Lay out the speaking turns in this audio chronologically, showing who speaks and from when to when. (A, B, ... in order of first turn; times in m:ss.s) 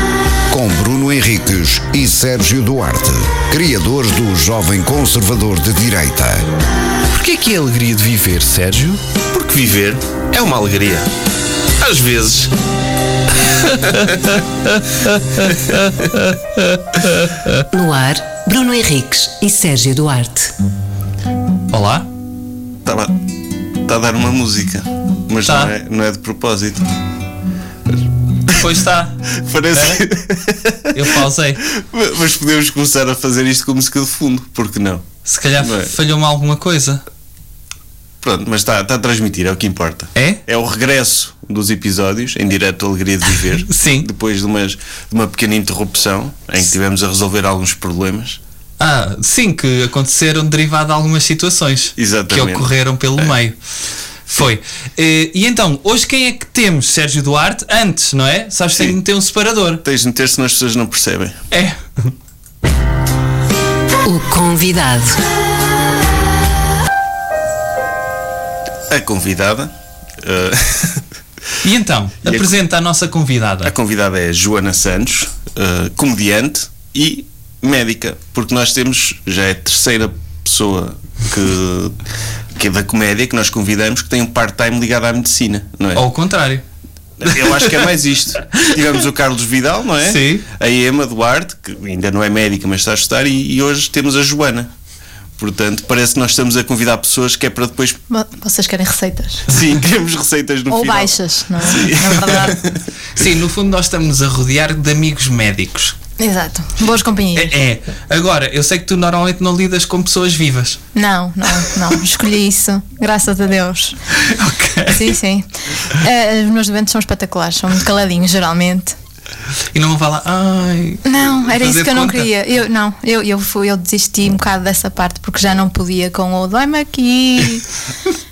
0:00.5-0:06.5 A
0:07.1-0:09.0 B
0:09.3-0:11.1 C
0:11.8-0:12.5 C
0:13.7-0:14.2 C
0:15.4-0:15.9 C
0:17.7-0:20.5 D
0:21.7-0:22.1 B
0:22.8-0:26.9 C
0:25.4-0:25.7 B
0:28.5-0:30.0 B
0:29.3-0:35.1 C
0:30.9-0:31.7 B
0:35.3-0:37.0 B
0:35.6-0:35.9 C
0:38.2-0:48.4 C
0:40.2-0:40.4 B
0:43.7-0:44.1 B
0:48.8-0:53.6 B
0:52.0-0:53.3 C
0:54.3-0:59.8 B
0:59.8-1:01.4 C
1:01.5-1:02.1 B
1:04.0-1:05.2 D
1:08.9-1:11.0 C
1:11.6-1:13.7 B
1:12.2-1:12.5 C
1:13.6-1:22.0 C
1:22.6-1:26.1 C
1:25.9-1:26.6 B
1:27.2-1:34.7 C
1:27.4-1:27.8 B
1:28.5-1:28.8 B
1:30.0-1:30.4 B
1:35.4-1:38.0 C
1:38.1-1:39.5 E
1:39.5-1:42.8 C
1:40.7-1:42.7 E
1:43.2-1:46.0 B
1:46.2-1:47.5 E
1:47.4-1:50.8 B
1:50.9-1:54.0 E
1:54.1-1:55.2 B
1:54.9-1:59.0 E
1:59.7-2:02.3 B
2:01.0-2:07.7 E